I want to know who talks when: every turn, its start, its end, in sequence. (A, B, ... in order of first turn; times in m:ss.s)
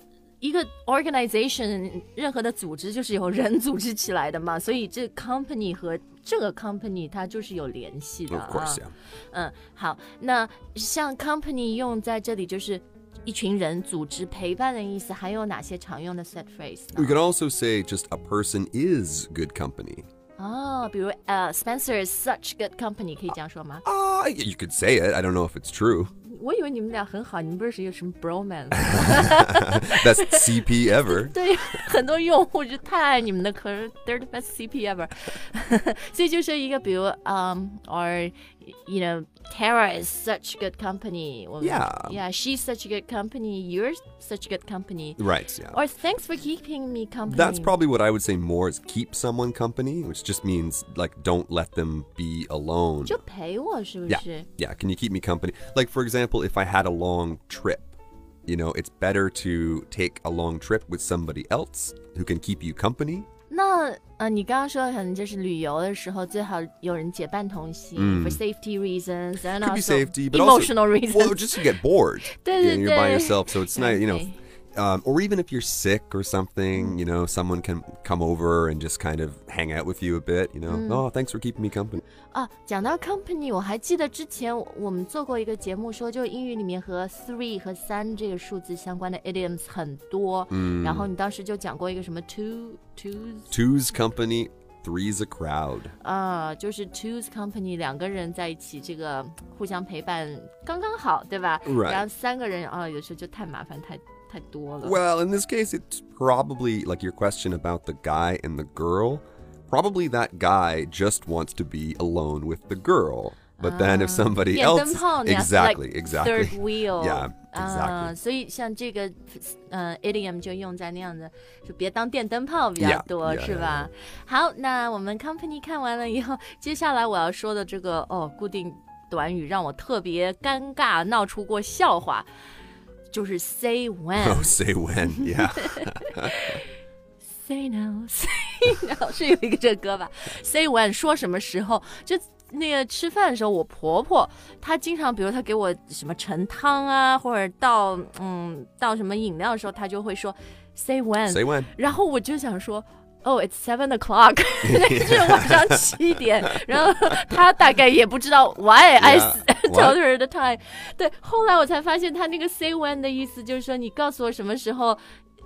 0:00.4-0:17.2 A
0:08.3-0:08.9 B
0:16.9-0:20.1 B
0:20.4-0:23.8 A
0:23.8-0:26.1 B
0:26.2-0:47.8 A
0:28.8-0:31.4 B
0:41.6-0:42.2 B
0:45.2-0:45.8 B
0:47.3-0:53.2 B
0:53.0-0:54.5 A
0:54.1-0:57.9 B
0:58.4-1:03.3 B
1:03.5-1:14.4 A
1:08.0-1:08.4 B
1:09.5-1:22.0 B
1:20.7-1:21.0 A
1:22.3-1:33.5 A
1:30.5-1:31.1 B
1:33.5-1:35.9 B
1:36.0-1:45.0 A
1:41.6-1:42.0 B
1:44.8-1:58.1 B
1:53.6-2:12.3 A
2:02.8-2:03.9 B
2:13.1-2:14.6 A
2:14.2-2:16.4 B
2:15.1-2:16.6 A
2:17.3-2:45.0 A
2:31.2-2:31.7 B
2:34.6-2:36.0 B
2:39.0-2:40.0 B